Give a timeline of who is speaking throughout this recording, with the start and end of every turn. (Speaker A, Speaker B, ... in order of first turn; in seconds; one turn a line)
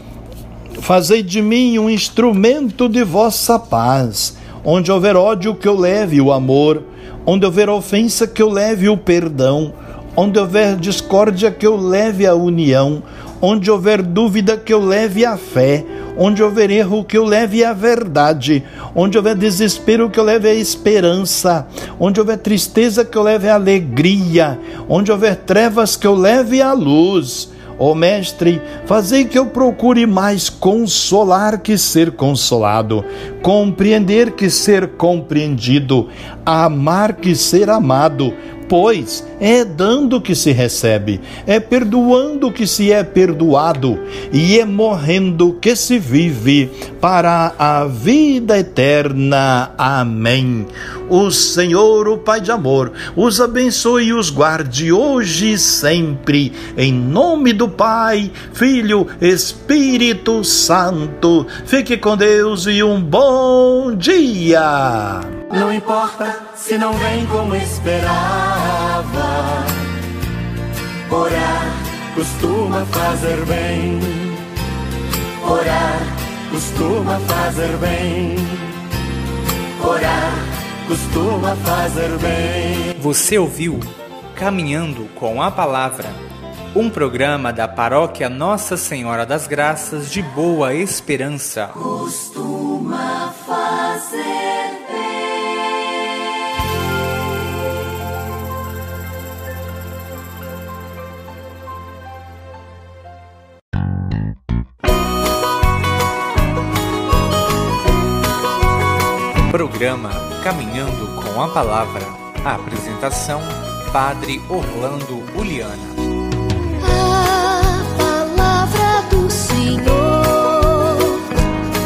Speaker A: 0.8-65.3
Speaker B: 65.5-69.8
Speaker B: 71.1-74.4
Speaker B: 75.4-78.8
Speaker B: 79.8-83.0
Speaker C: 83.0-91.9
Speaker D: 92.6-94.8
Speaker C: 109.5-116.0
Speaker D: 116.8-121.2